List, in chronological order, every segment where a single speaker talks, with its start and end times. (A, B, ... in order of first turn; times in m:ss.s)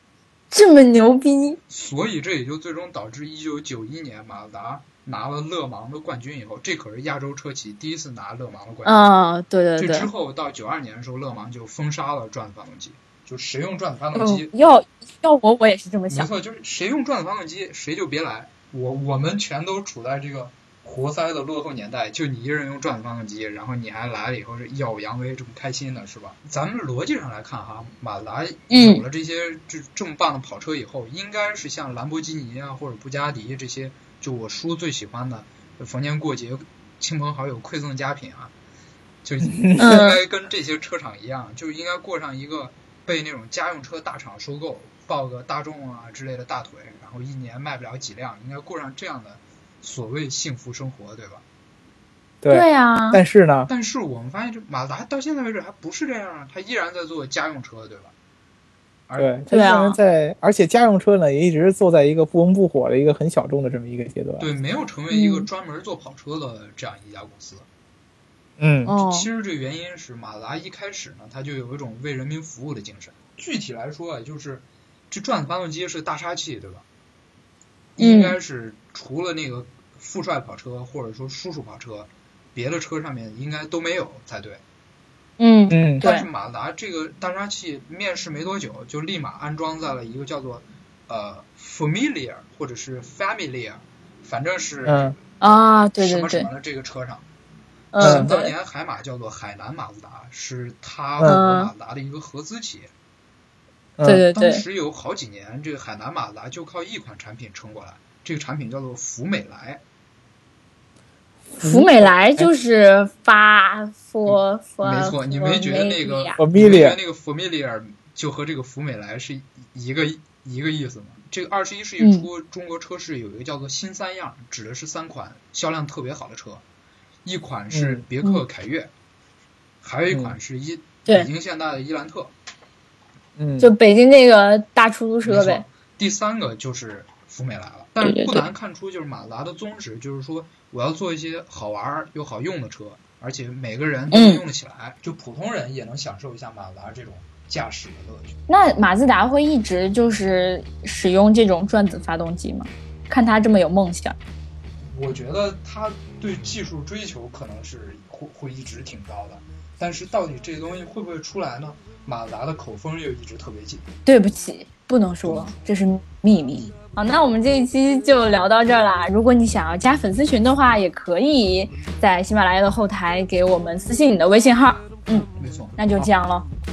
0:00.5-0:01.6 A
0:01.7-0:09.1 B
0:08.8-0:10.1 A
0:09.8-0:14.5 B
0:14.1-0:16.3 A
0:16.1-0:38.5 B
0:28.7-0:29.0 A
0:39.2-0:51.4 B
0:39.4-0:39.9 C
0:39.8-0:40.2 A
0:52.4-0:53.7 C
0:52.5-0:53.2 A
0:53.7-0:58.1 B
0:59.2-1:04.5 C
0:59.5-1:00.0 A
1:04.4-1:07.7 B
1:05.1-1:05.5 A
1:08.6-1:08.9 C
1:08.9-1:09.3 A
1:08.9-1:16.8 B
1:18.0-1:24.6 B
1:18.0-1:18.3 A
1:25.4-1:26.3 A
1:25.7-1:26.0 C
1:26.0-1:35.2 B
1:34.8-1:35.1 C
1:35.4-1:36.5 A
1:36.0-1:37.3 B
1:37.9-1:38.5 A
1:38.0-1:42.9 B
1:38.0-1:38.3 C
1:41.2-1:41.4 C
1:41.2-1:41.7 A
1:44.0-1:44.2 C
1:44.0-1:44.6 A
1:44.3-1:49.8 B
1:51.6-1:52.5 C
1:51.6-1:56.4 A
1:54.8-2:06.6 B
1:56.4-1:57.0 C
2:02.0-2:02.3 A
2:07.2-2:08.9 B
2:07.7-2:08.0 C
2:09.8-2:12.3 B
2:10.1-2:10.4 C
2:13.4-2:13.7 C
2:13.6-2:15.6 A
2:15.2-2:28.4 B
2:18.0-2:18.4 A
2:24.1-2:24.4 A
2:28.5-2:34.2 A
2:34.8-2:43.9 B
2:44.0-2:56.5 A
2:45.2-2:45.6 B
2:55.4-2:55.8 B